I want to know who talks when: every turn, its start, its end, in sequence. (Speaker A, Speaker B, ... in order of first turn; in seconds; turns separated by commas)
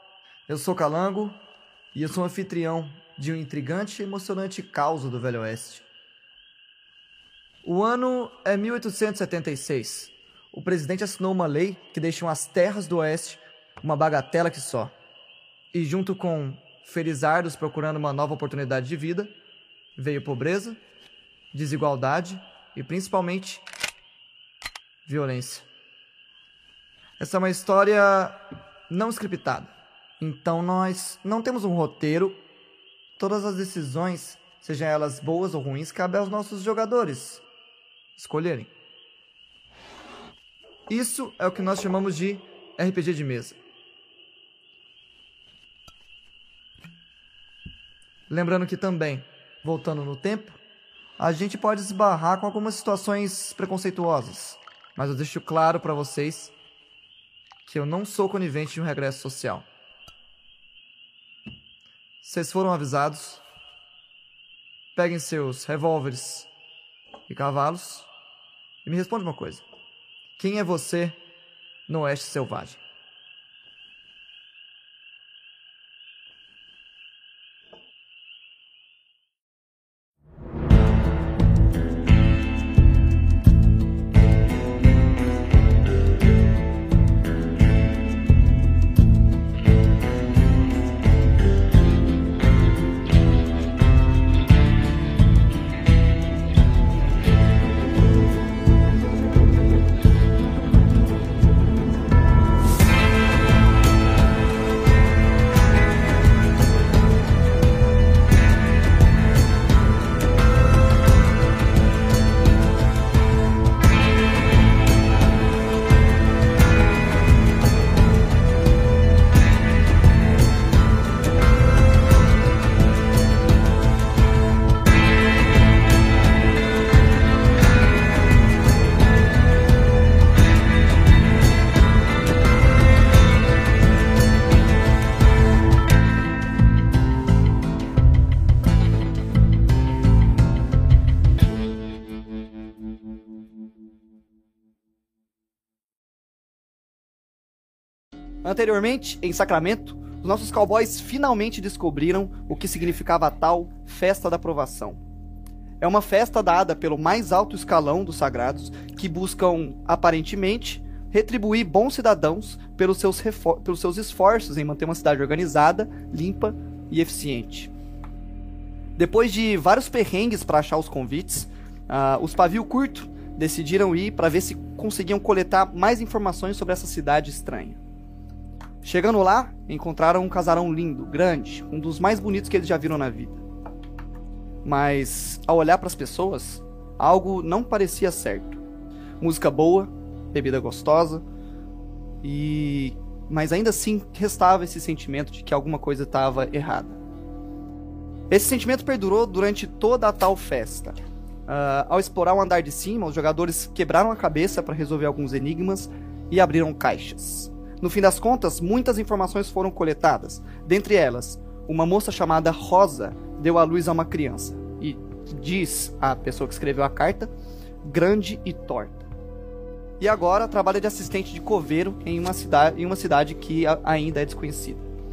Speaker A: 0.5-1.4, Speaker A: 1.9-5.8, Speaker A: 7.6-14.9, Speaker A: 15.7-19.3, Speaker A: 20.0-20.8, Speaker A: 21.5-23.6, Speaker A: 25.1-25.6, Speaker A: 27.2-32.4, Speaker A: 33.2-37.4, Speaker A: 38.2-38.7, Speaker A: 40.9-43.6, Speaker A: 48.3-50.6, Speaker A: 51.2-56.5, Speaker A: 57.7-59.7, Speaker A: 62.2-63.4, Speaker A: 65.0-66.5, Speaker A: 67.3-68.1, Speaker A: 68.8-69.6, Speaker A: 70.4-71.2, Speaker A: 71.9-72.8, Speaker A: 148.4-155.0, Speaker A: 155.8-167.7, Speaker A: 169.0-177.8, Speaker A: 178.8-183.4, Speaker A: 184.6-188.6, Speaker A: 189.2-191.2, Speaker A: 192.2-197.0, Speaker A: 198.3-217.3, Speaker A: 217.8-219.1, Speaker A: 220.0-224.8